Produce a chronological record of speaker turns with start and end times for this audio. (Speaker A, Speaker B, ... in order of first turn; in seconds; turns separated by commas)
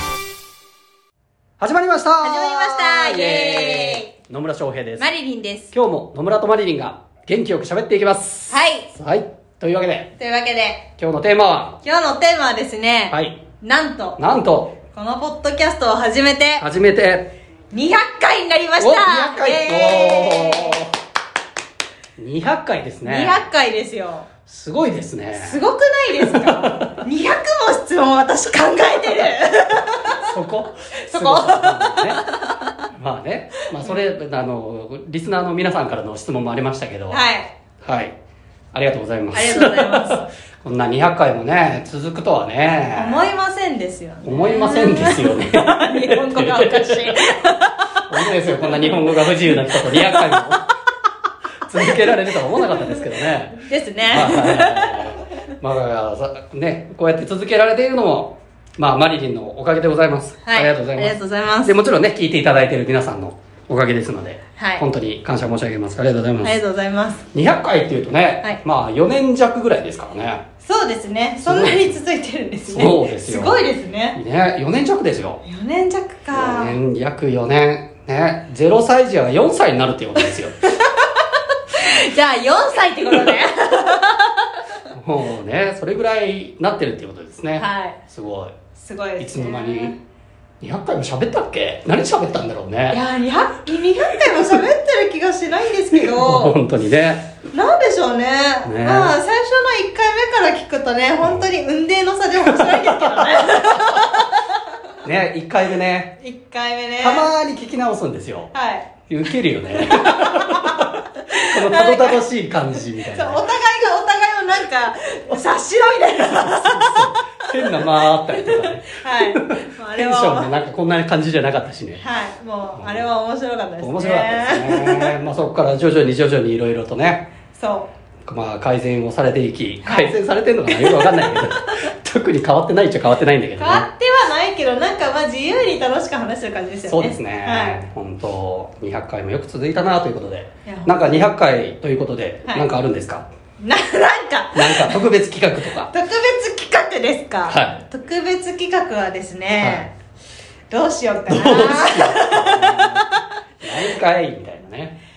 Speaker A: 1.6-5.1, Speaker B: 2.2-4.1, Speaker B: 5.0-5.7, Speaker A: 5.7-10.1, Speaker B: 8.5-8.9, Speaker B: 10.2-10.9, Speaker A: 11.0-11.8, Speaker B: 11.8-14.2, Speaker A: 13.1-13.4, Speaker A: 14.2-14.8, Speaker B: 14.9-16.6, Speaker A: 16.6-17.3, Speaker B: 17.7-20.8, Speaker A: 18.8-20.9, Speaker A: 22.2-23.4, Speaker B: 23.0-24.3, Speaker A: 24.5-25.6, Speaker B: 25.3-30.3, Speaker A: 26.2-26.9, Speaker A: 30.3-32.2, Speaker B: 31.1-32.7, Speaker A: 32.9-37.2, Speaker B: 37.1-37.5, Speaker A: 37.8-38.1, Speaker A: 38.7-43.3, Speaker B: 39.3-40.3, Speaker B: 42.9-50.5, Speaker A: 44.2-47.3, Speaker A: 48.1-50.6, Speaker A: 51.7-66.6, Speaker B: 52.7-53.0, Speaker B: 53.6-55.1, Speaker B: 60.4-61.9, Speaker B: 64.6-64.8, Speaker B: 66.4-67.2, Speaker A: 67.3-70.4, Speaker B: 70.6-74.2, Speaker A: 71.4-72.0, Speaker A: 72.7-75.4, Speaker B: 75.4-76.8, Speaker A: 76.3-80.5, Speaker B: 80.8-84.6, Speaker A: 84.9-88.5, Speaker B: 87.6-88.0, Speaker B: 88.8-90.0, Speaker A: 89.2-89.9, Speaker A: 90.6-93.0, Speaker B: 92.9-96.5, Speaker A: 95.9-97.3, Speaker B: 97.5-104.7, Speaker A: 98.6-99.2, Speaker A: 102.4-103.7, Speaker A: 105.0-106.1, Speaker B: 106.2-107.3, Speaker A: 107.0-108.5, Speaker B: 108.5-108.9, Speaker A: 109.1-113.5, Speaker B: 109.7-112.2, Speaker B: 113.0-120.5, Speaker A: 116.6-122.0, Speaker B: 122.0-125.2, Speaker A: 122.7-123.0, Speaker A: 123.8-127.3, Speaker B: 127.5-127.9, Speaker A: 128.2-133.8, Speaker B: 129.8-130.2, Speaker B: 130.7-131.7, Speaker B: 133.6-137.8, Speaker A: 136.8-143.3, Speaker B: 140.6-141.0, Speaker B: 143.6-145.0, Speaker A: 144.5-145.9, Speaker B: 145.9-149.9, Speaker A: 147.5-147.8, Speaker A: 149.6-149.9, Speaker B: 150.7-153.2, Speaker A: 151.3-153.1, Speaker A: 153.6-155.0